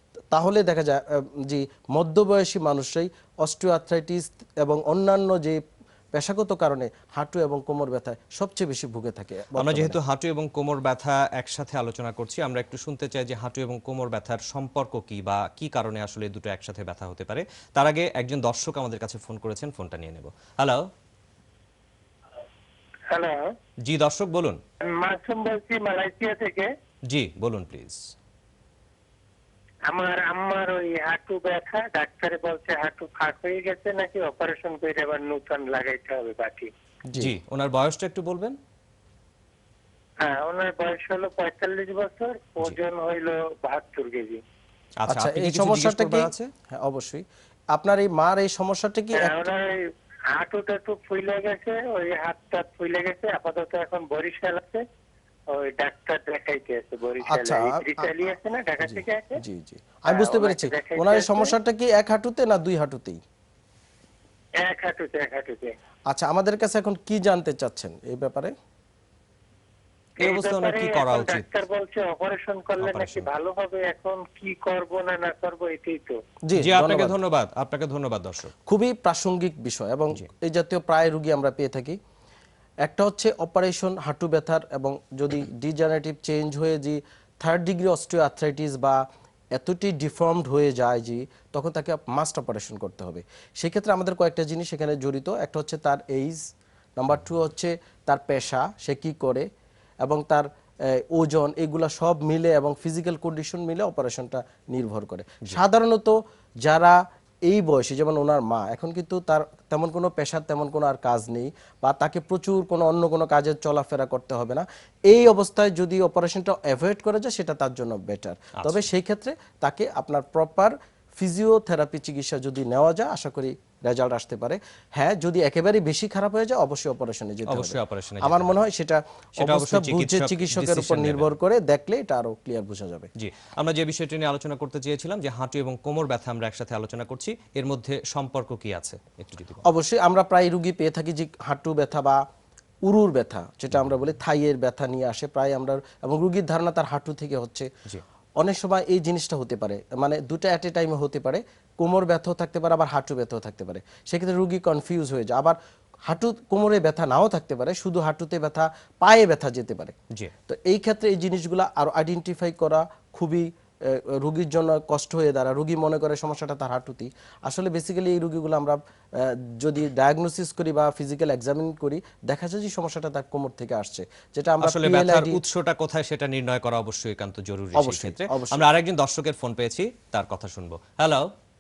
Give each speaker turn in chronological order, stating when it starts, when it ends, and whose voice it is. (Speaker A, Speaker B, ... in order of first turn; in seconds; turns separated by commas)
Speaker A: 0.3-5.6, Speaker A: 6.1-10.0, Speaker B: 9.6-20.8, Speaker C: 23.1-23.5, Speaker B: 23.9-24.6, Speaker C: 24.9-26.7, Speaker B: 27.1-28.0, Speaker C: 29.9-36.7, Speaker B: 37.1-38.6, Speaker C: 40.2-44.4, Speaker B: 45.0-46.5, Speaker A: 45.1-49.4, Speaker C: 49.1-49.7, Speaker C: 50.3-54.8, Speaker C: 55.5-59.4, Speaker A: 57.2-63.2, Speaker C: 60.1-61.5, Speaker C: 64.6-65.7, Speaker A: 66.1-68.5, Speaker C: 70.2-76.2, Speaker B: 70.2-71.5, Speaker B: 72.8-73.3, Speaker A: 76.5-77.2, Speaker B: 76.5-78.5, Speaker A: 78.7-82.0, Speaker A: 82.8-89.0, Speaker A: 89.5-96.4, Speaker A: 97.0-99.5, Speaker A: 100.0-133.1, Speaker B: 127.5-128.6, Speaker B: 129.4-131.3, Speaker B: 133.2-139.6, Speaker A: 139.7-142.2, Speaker A: 142.9-147.7, Speaker A: 148.4-155.6, Speaker A: 156.1-159.9, Speaker A: 160.5-175.4, Speaker B: 174.6-181.3, Speaker A: 177.8-178.7